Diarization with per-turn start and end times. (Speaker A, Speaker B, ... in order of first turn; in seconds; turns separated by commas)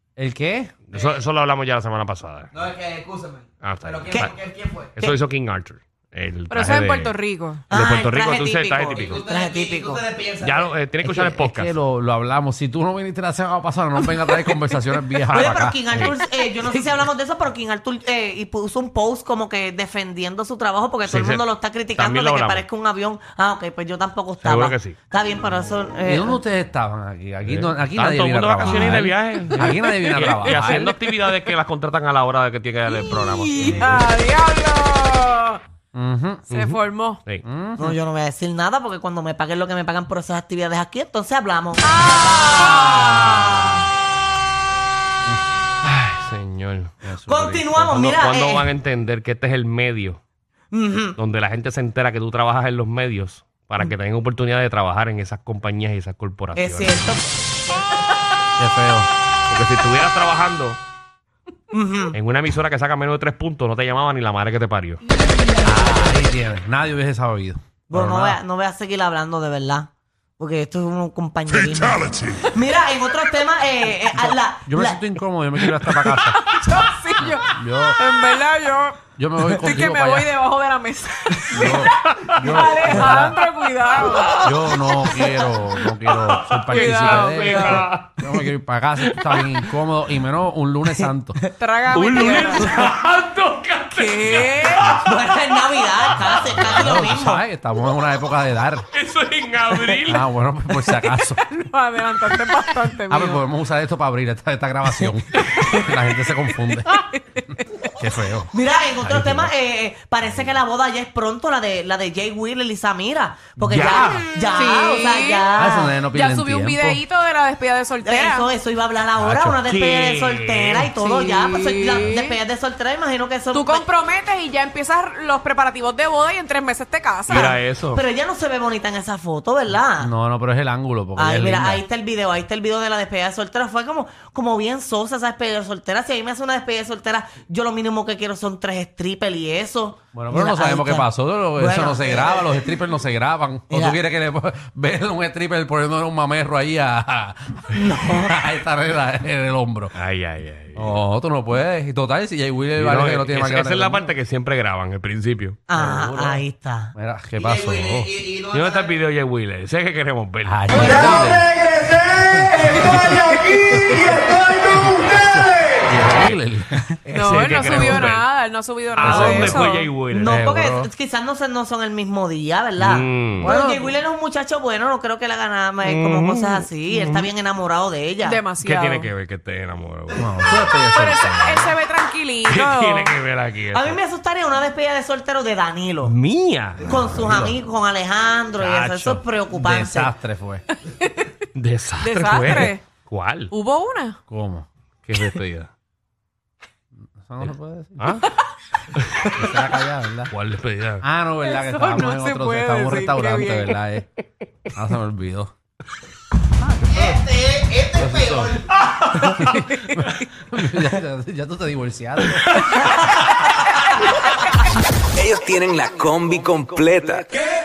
Speaker A: 0.2-0.7, Speaker B: 0.9-2.5, Speaker C: 2.5-4.9, Speaker B: 3.6-4.3, Speaker B: 5.0-7.2, Speaker D: 6.5-7.7, Speaker E: 7.7-10.1, Speaker B: 7.7-9.3, Speaker C: 9.0-10.7, Speaker B: 10.4-11.8, Speaker A: 11.0-16.1, Speaker E: 15.3-26.4, Speaker B: 15.3-16.2, Speaker B: 21.1-22.6, Speaker B: 24.4-25.0, Speaker A: 26.0-30.9, Speaker B: 27.4-34.0, Speaker D: 29.8-31.5, Speaker D: 32.9-35.6, Speaker A: 33.6-34.0, Speaker A: 35.9-36.5, Speaker D: 36.5-37.2, Speaker B: 36.5-37.4, Speaker A: 37.4-38.0, Speaker E: 37.8-43.8, Speaker D: 41.9-42.9, Speaker A: 42.6-43.8, Speaker B: 45.8-47.0, Speaker A: 47.0-47.9, Speaker E: 47.2-48.7, Speaker B: 47.8-50.2, Speaker E: 50.7-51.2, Speaker B: 51.2-57.0, Speaker E: 56.5-57.3, Speaker A: 58.6-59.1, Speaker B: 59.5-60.8, Speaker E: 61.7-62.2, Speaker B: 62.1-65.0, Speaker A: 65.6-68.4, Speaker E: 67.9-75.0, Speaker B: 71.6-72.4, Speaker A: 74.1-76.4, Speaker D: 76.4-84.7, Speaker A: 77.2-78.0, Speaker A: 79.2-80.3, Speaker A: 81.5-83.4, Speaker B: 82.2-82.6, Speaker B: 84.2-85.3, Speaker A: 84.4-91.4, Speaker B: 86.1-88.3, Speaker D: 86.7-87.8, Speaker B: 89.0-89.5, Speaker D: 91.6-92.9, Speaker B: 91.9-95.1, Speaker D: 93.9-95.0, Speaker E: 94.9-97.4, Speaker B: 96.1-97.0, Speaker A: 96.6-98.8, Speaker B: 98.9-100.2, Speaker A: 100.1-101.4, Speaker D: 100.8-103.4, Speaker A: 103.1-108.5, Speaker B: 105.4-105.9, Speaker D: 106.9-107.9, Speaker E: 108.5-116.0, Speaker B: 109.0-109.5, Speaker A: 113.6-114.3, Speaker B: 113.7-114.2, Speaker D: 114.5-118.5, Speaker A: 115.6-117.0, Speaker E: 118.0-123.9, Speaker A: 119.2-119.6, Speaker B: 119.7-120.9, Speaker D: 121.0-122.4, Speaker D: 123.5-127.5, Speaker B: 127.3-128.0, Speaker E: 127.3-130.1, Speaker A: 130.0-131.8, Speaker E: 131.2-142.6, Speaker A: 140.1-150.0, Speaker E: 143.7-144.0, Speaker E: 147.7-148.4, Speaker B: 149.9-151.0, Speaker A: 150.8-154.1, Speaker B: 152.8-155.6, Speaker E: 155.7-156.9, Speaker A: 155.7-156.4, Speaker A: 156.9-158.2, Speaker C: 157.4-159.0, Speaker B: 158.5-161.2, Speaker A: 160.4-161.5, Speaker D: 160.7-161.2, Speaker A: 162.2-166.9, Speaker D: 162.8-163.7, Speaker C: 163.4-163.7, Speaker B: 167.1-168.2, Speaker D: 167.1-169.9, Speaker A: 167.6-167.8, Speaker B: 169.0-170.4, Speaker A: 169.0-169.7, Speaker E: 170.1-178.4, Speaker A: 170.2-170.9, Speaker B: 172.8-173.5, Speaker A: 173.4-173.9, Speaker B: 175.8-177.3, Speaker D: 178.2-179.1, Speaker B: 178.6-180.8, Speaker A: 180.2-181.7, Speaker D: 180.9-183.2, Speaker B: 182.5-184.0, Speaker E: 183.7-186.2, Speaker B: 186.0-187.2, Speaker E: 186.8-190.1, Speaker A: 187.0-187.6, Speaker B: 188.6-189.2, Speaker A: 189.2-190.6, Speaker D: 190.9-191.3, Speaker B: 191.6-193.5, Speaker D: 192.0-192.8, Speaker D: 193.5-194.2, Speaker A: 194.3-195.7, Speaker A: 197.2-198.2, Speaker B: 197.4-198.2, Speaker B: 198.9-199.3, Speaker A: 199.3-200.3, Speaker B: 200.3-201.0, Speaker A: 201.0-204.1, Speaker D: 201.4-203.8, Speaker A: 204.7-205.5, Speaker A: 206.6-207.2, Speaker C: 207.0-208.6, Speaker A: 207.9-208.6, Speaker D: 209.2-210.3, Speaker A: 209.2-212.8, Speaker F: 215.1-217.5